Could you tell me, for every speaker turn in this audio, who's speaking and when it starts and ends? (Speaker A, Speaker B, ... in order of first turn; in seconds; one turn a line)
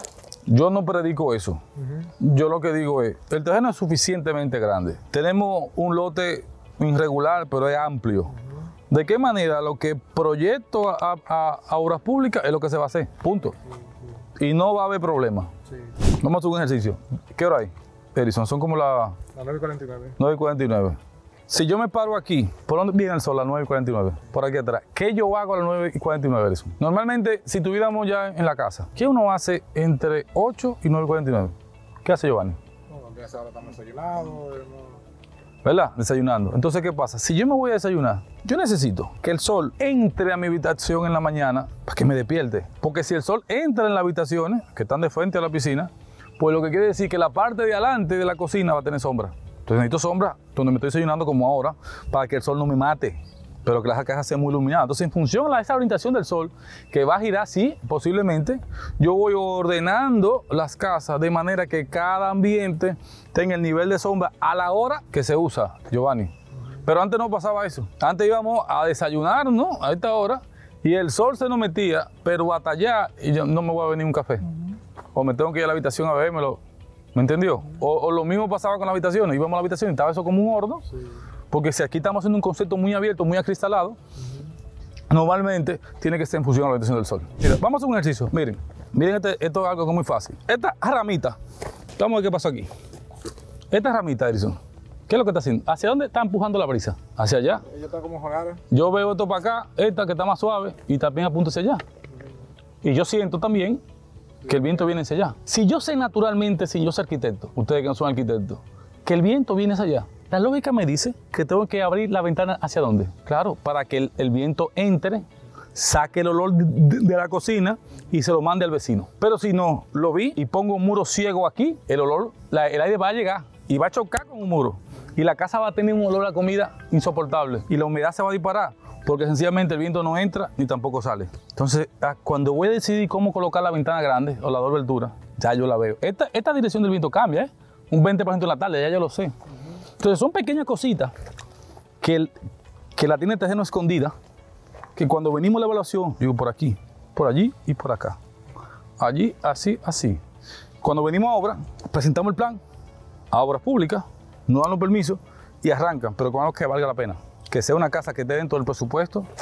Speaker A: 0.5-1.6
Speaker B: 1.8-2.1
Speaker A: 2.2-8.4
Speaker B: 8.4-8.7
Speaker A: 8.9-13.6
Speaker B: 13.8-14.1
Speaker A: 14.3-15.5
Speaker B: 15.7-15.9
Speaker A: 16.1-19.1
Speaker B: 19.3-20.2
Speaker A: 20.2-32.6
Speaker B: 32.9-35.0
Speaker A: 35.6-66.3
Speaker A: 66.8-76.6
Speaker A: 77.1-80.9
Speaker A: 81.5-84.0
Speaker A: 85.1-91.4
Speaker A: 92.0-92.7
Speaker A: 93.7-97.6
Speaker B: 97.7-98.6
Speaker A: 98.7-101.8
Speaker A: 102.8-103.8
Speaker A: 104.5-139.3
Speaker A: 140.0-141.1
Speaker A: 142.0-142.3
Speaker A: 142.9-144.1
Speaker A: 144.9-148.2
Speaker A: 149.0-150.2
Speaker A: 150.8-152.6
Speaker A: 153.3-159.3